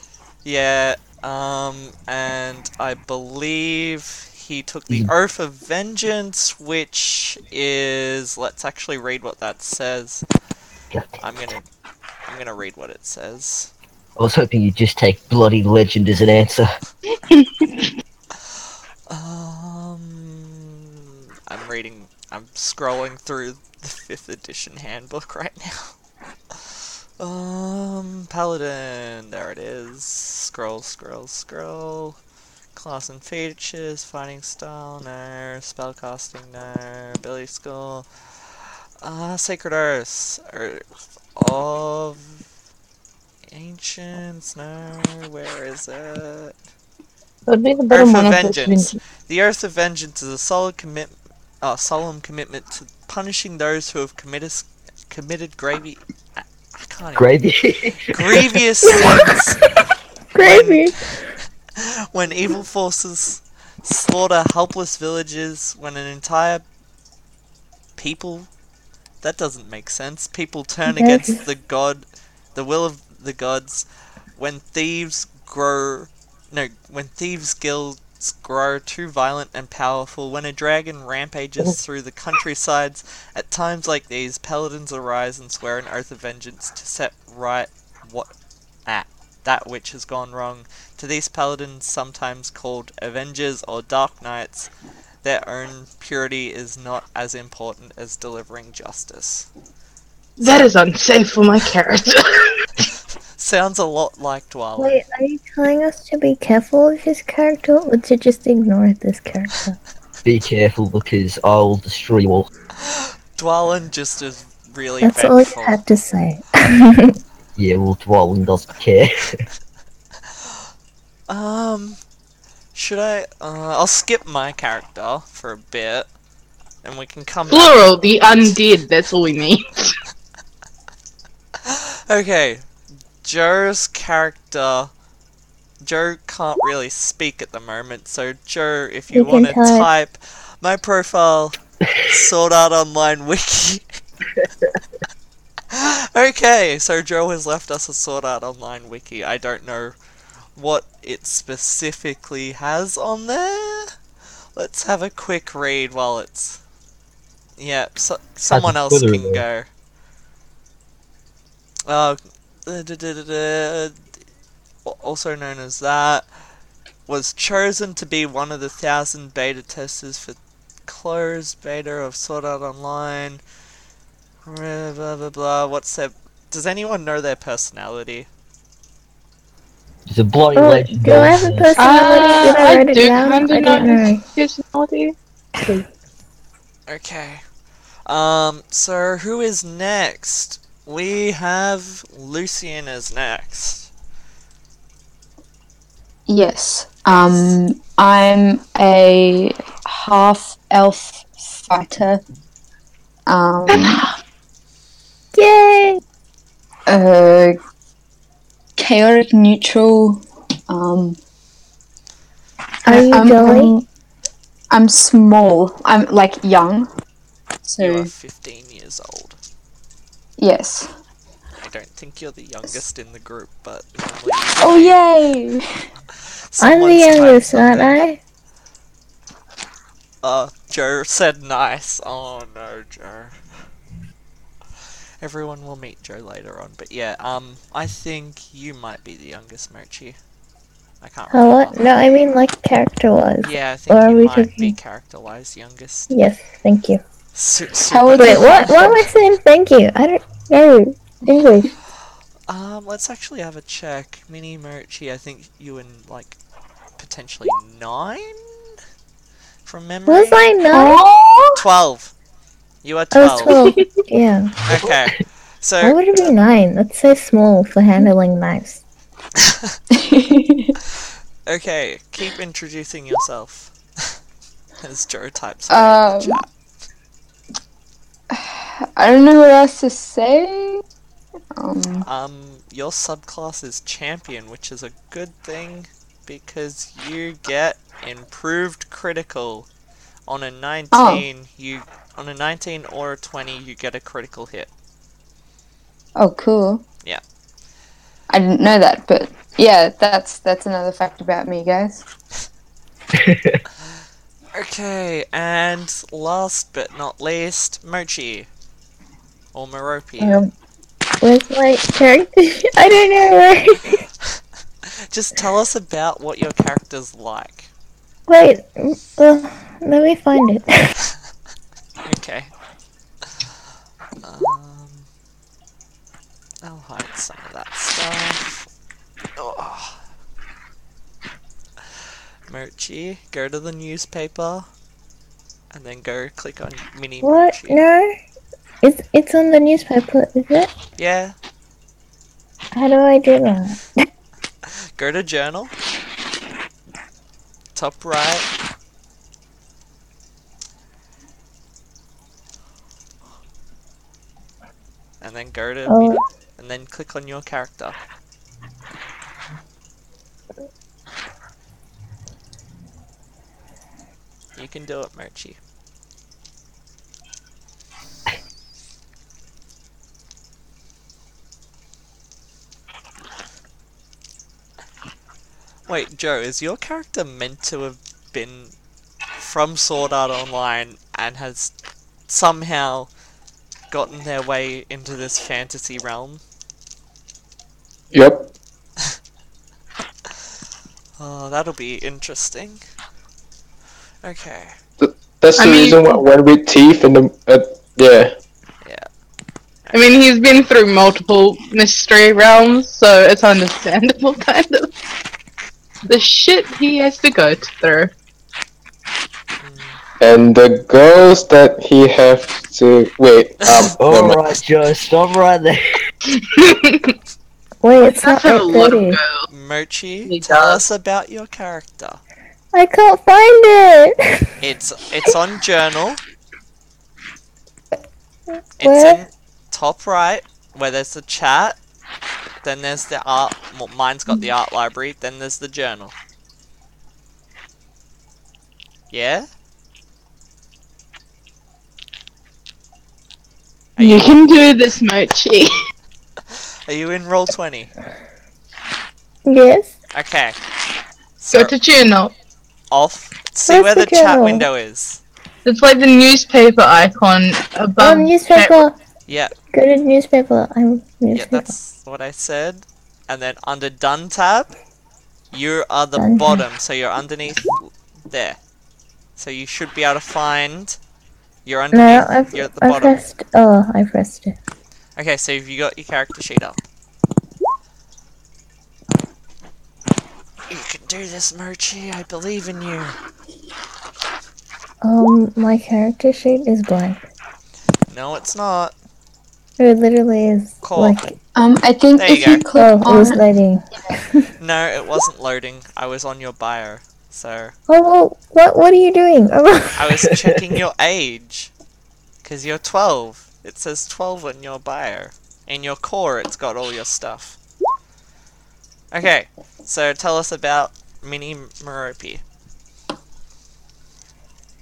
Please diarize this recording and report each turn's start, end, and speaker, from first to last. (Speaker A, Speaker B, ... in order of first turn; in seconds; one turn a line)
Speaker A: 0.4-10.2
Speaker B: 10.9-11.2
Speaker A: 11.2-11.7
Speaker A: 12.3-13.7
Speaker B: 14.2-16.7
Speaker C: 17.3-17.9
Speaker A: 19.1-25.9
Speaker A: 27.2-32.2
Speaker A: 32.7-38.1
Speaker A: 39.0-40.8
Speaker A: 41.4-42.4
Speaker A: 43.5-46.5
Speaker C: 47.5-49.0
Speaker A: 47.9-57.3
Speaker B: 57.2-58.6
Speaker A: 58.1-59.6
Speaker D: 58.9-59.6
Speaker D: 60.3-61.0
Speaker A: 60.4-60.9
Speaker A: 61.8-66.6
Speaker A: 68.0-68.5
Speaker A: 69.2-88.3
Speaker D: 70.9-71.4
Speaker A: 88.9-94.7
Speaker A: 95.2-99.5
Speaker C: 100.4-102.6
Speaker A: 103.4-105.0
Speaker D: 104.8-109.8
Speaker B: 110.2-112.5
Speaker A: 112.8-115.8
Speaker D: 115.0-117.2
Speaker B: 117.6-119.4
Speaker A: 121.3-122.0
Speaker A: 122.8-126.1
Speaker A: 126.8-128.6
Speaker C: 127.5-129.9
Speaker A: 131.6-132.7
Speaker A: 133.2-134.9
Speaker A: 135.8-144.0
Speaker D: 139.1-139.9
Speaker A: 145.7-150.0
Speaker A: 150.6-153.9
Speaker A: 154.6-156.6
Speaker A: 157.6-159.7
Speaker B: 158.5-159.4
Speaker A: 161.9-163.9
Speaker A: 164.8-166.3
Speaker A: 167.1-173.4
Speaker A: 174.5-178.3
Speaker B: 180.1-181.7
Speaker D: 180.6-184.2
Speaker C: 181.8-185.8
Speaker A: 186.9-187.4
Speaker A: 188.1-193.9
Speaker E: 196.3-202.2
Speaker A: 197.1-197.6
Speaker E: 203.3-204.1
Speaker C: 203.7-204.0
Speaker D: 205.3-206.0
Speaker E: 206.9-207.6
Speaker E: 208.8-211.2
Speaker E: 212.8-213.9
Speaker D: 212.9-213.7
Speaker E: 214.7-216.9
Speaker E: 217.7-218.1
Speaker A: 217.8-219.4
Speaker E: 220.4-220.9
Speaker A: 221.6-225.0
Speaker E: 224.6-225.6
Speaker A: 226.5-227.9
Speaker D: 226.6-228.2
Speaker A: 230.2-233.4
Speaker A: 235.2-240.2
Speaker A: 241.0-241.8
Speaker D: 241.3-244.8
Speaker A: 243.4-246.1
Speaker D: 246.1-247.0
Speaker A: 247.3-249.0
Speaker E: 247.9-249.1
Speaker D: 248.2-251.7
Speaker A: 252.5-256.4
Speaker A: 257.0-258.4
Speaker A: 259.7-260.5
Speaker D: 260.1-261.0
Speaker E: 260.7-261.6
Speaker A: 261.6-262.1
Speaker A: 262.8-263.5
Speaker D: 263.1-264.6
Speaker C: 263.5-263.9
Speaker A: 264.7-266.0
Speaker D: 265.8-268.8
Speaker A: 269.5-269.8
Speaker E: 269.9-270.8
Speaker A: 271.5-274.1
Speaker A: 274.8-276.5
Speaker E: 275.7-276.4
Speaker E: 278.3-280.8
Speaker E: 281.6-282.1
Speaker A: 282.1-289.7
Speaker A: 290.3-294.7
Speaker E: 290.9-291.3
Speaker E: 296.2-296.8
Speaker E: 298.3-302.1
Speaker B: 303.1-303.6
Speaker A: 304.5-308.5
Speaker A: 309.5-310.4
Speaker D: 310.2-310.5
Speaker D: 311.2-314.1
Speaker A: 315.1-317.7
Speaker D: 318.3-320.9
Speaker A: 322.1-322.5
Speaker A: 324.2-325.1
Speaker A: 326.6-328.7
Speaker A: 329.4-330.0
Speaker A: 332.5-334.7
Speaker A: 335.7-337.8
Speaker D: 337.2-338.1
Speaker D: 338.8-340.7
Speaker A: 341.0-341.4
Speaker D: 342.7-343.8
Speaker A: 344.7-345.7
Speaker A: 347.8-348.5
Speaker A: 355.2-358.0
Speaker D: 355.9-356.2
Speaker A: 364.6-365.6
Speaker A: 375.9-378.7
Speaker A: 379.4-381.7
Speaker A: 382.3-383.1
Speaker A: 383.9-386.4
Speaker F: 388.1-388.5
Speaker A: 391.2-392.8
Speaker A: 394.2-394.7
Speaker F: 395.0-398.3
Speaker C: 395.6-396.2
Speaker A: 399.9-400.1
Speaker C: 399.9-404.9
Speaker C: 406.1-408.1
Speaker A: 409.6-410.0
Speaker F: 410.2-414.4
Speaker A: 413.6-414.0
Speaker B: 414.0-415.8
Speaker C: 416.3-417.1
Speaker D: 417.8-419.2
Speaker C: 418.2-419.5
Speaker A: 419.5-422.2
Speaker C: 420.3-420.8
Speaker D: 422.7-424.5
Speaker A: 424.6-426.2
Speaker D: 428.8-429.2
Speaker A: 428.8-431.8
Speaker A: 432.6-436.1
Speaker A: 439.1-439.5
Speaker A: 444.0-444.3
Speaker C: 444.0-445.7
Speaker A: 446.9-447.9
Speaker D: 449.5-449.9
Speaker A: 450.1-450.6
Speaker A: 451.4-451.7
Speaker C: 451.5-452.3
Speaker A: 452.9-455.2
Speaker D: 453.7-454.7
Speaker C: 455.6-458.8
Speaker D: 458.0-458.9
Speaker A: 459.3-459.5
Speaker D: 459.7-461.7
Speaker A: 461.4-464.7
Speaker A: 465.5-468.6
Speaker D: 466.2-466.6
Speaker A: 469.4-471.0
Speaker A: 471.6-473.2
Speaker D: 471.9-474.6
Speaker A: 475.2-476.8
Speaker A: 480.7-483.2
Speaker D: 485.0-487.2
Speaker A: 488.1-488.9
Speaker D: 489.8-491.4
Speaker A: 490.8-491.2
Speaker E: 491.6-493.4
Speaker A: 492.2-492.6
Speaker D: 492.8-494.4
Speaker A: 494.6-497.7
Speaker D: 497.9-500.0
Speaker A: 500.0-501.7
Speaker A: 502.4-507.6
Speaker A: 509.1-512.4